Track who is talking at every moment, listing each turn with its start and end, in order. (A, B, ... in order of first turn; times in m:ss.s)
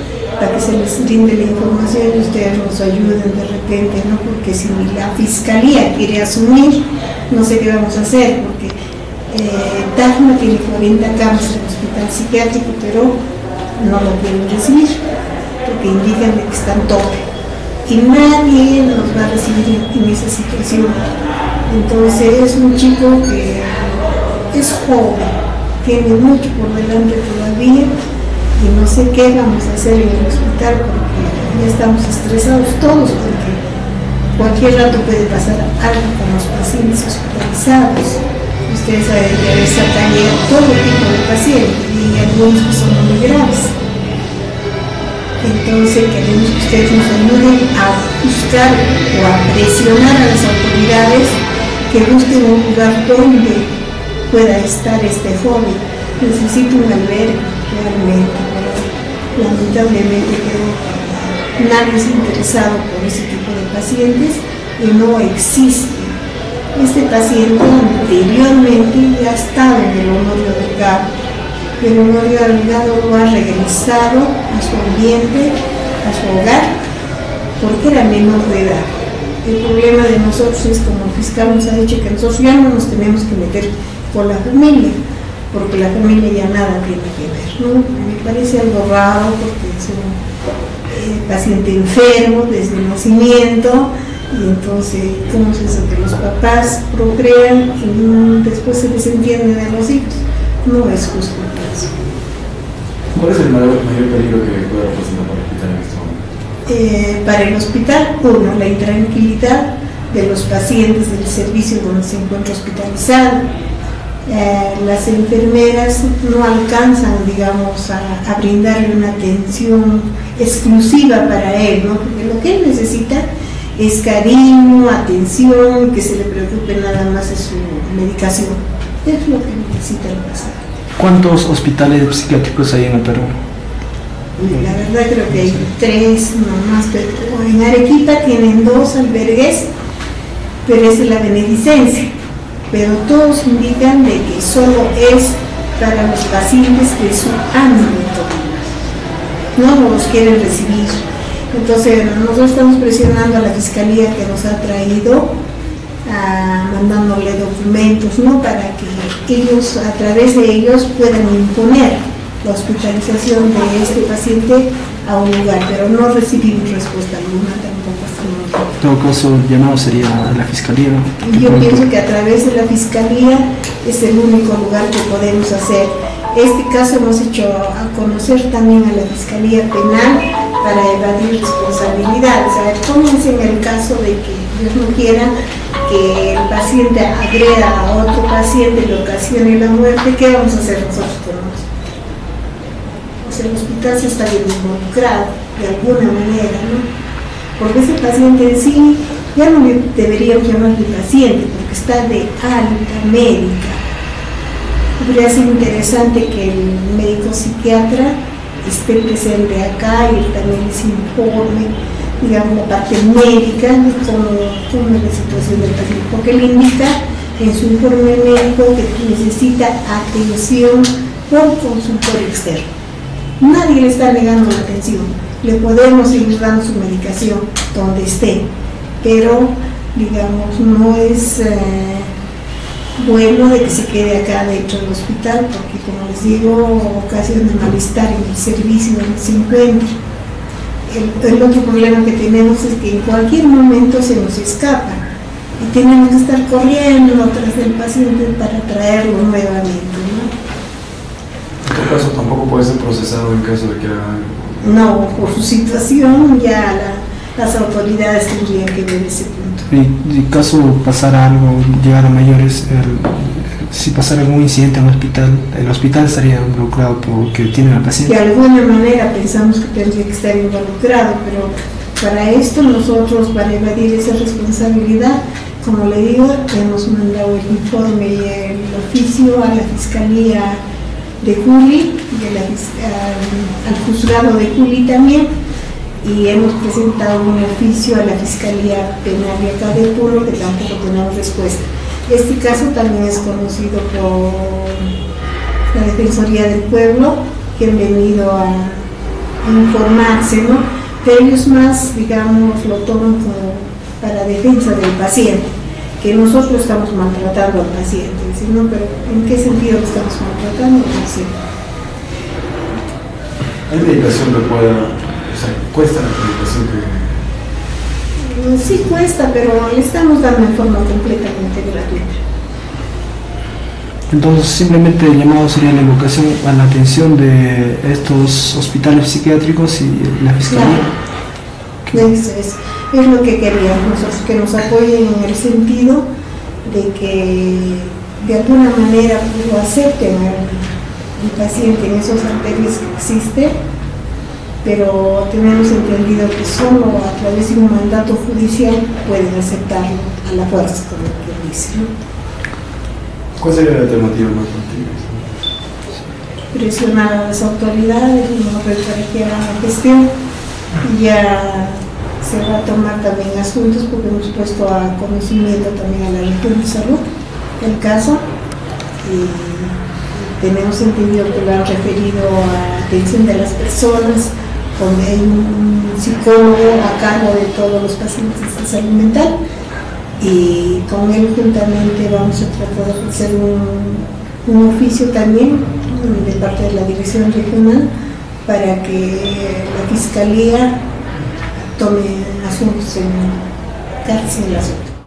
0:00.4-0:08.7 A
0:09.3-0:13.2 A
0:13.8-0:15.0 A
0:15.6-0:17.2 A
0:17.8-0:21.1 A
0:21.7-0:27.9 A
0:28.6-0:33.6 A
0:34.4-0:43.8 A
0:45.4-0:53.8 A
0:54.3-1:06.2 A
1:06.7-1:11.1 A
1:11.8-1:16.8 A
1:17.6-1:18.9 A
1:19.4-1:25.0 A
1:25.5-1:30.2 A
1:30.9-1:41.9 A
1:43.1-1:46.2 B
1:46.7-1:53.5 A
1:54.2-2:10.6 A
2:11.0-2:13.3 C
2:14.4-2:19.7 A
2:20.6-2:22.1 A
2:22.7-2:28.7 A
2:29.5-2:35.4 A
2:36.0-2:48.7 A
2:48.8-2:51.8 C
2:51.2-3:05.3 A
3:05.8-3:11.6 A
3:13.2-3:16.8 A
3:17.6-3:23.8 A
3:25.0-3:42.7 A
3:43.4-3:48.5 A
3:49.0-3:52.1 A
3:53.0-3:59.9 A
4:00.9-4:05.0 A
4:05.6-4:10.3 A
4:11.6-4:14.6 B
4:14.6-4:19.7 A
4:19.7-4:28.1 C
4:28.0-4:40.6 A
4:41.2-4:45.3 A
4:46.0-4:54.9 A
4:55.7-4:58.9 A
4:59.4-5:11.3 A
5:13.7-5:17.1 B
5:18.2-5:22.2 A
5:24.1-5:30.9 C
5:30.5-5:30.8 A
5:31.9-5:36.0 A
5:36.6-5:43.6 A
5:44.6-5:51.9 A
5:53.4-5:55.2 B
5:56.5-6:00.2 A
6:00.8-6:07.0 A
6:07.6-6:08.2 A
6:09.0-6:19.4 A
6:20.2-6:27.9 A
6:28.4-6:30.8 A
6:31.8-6:33.4 A
6:34.0-6:34.9 A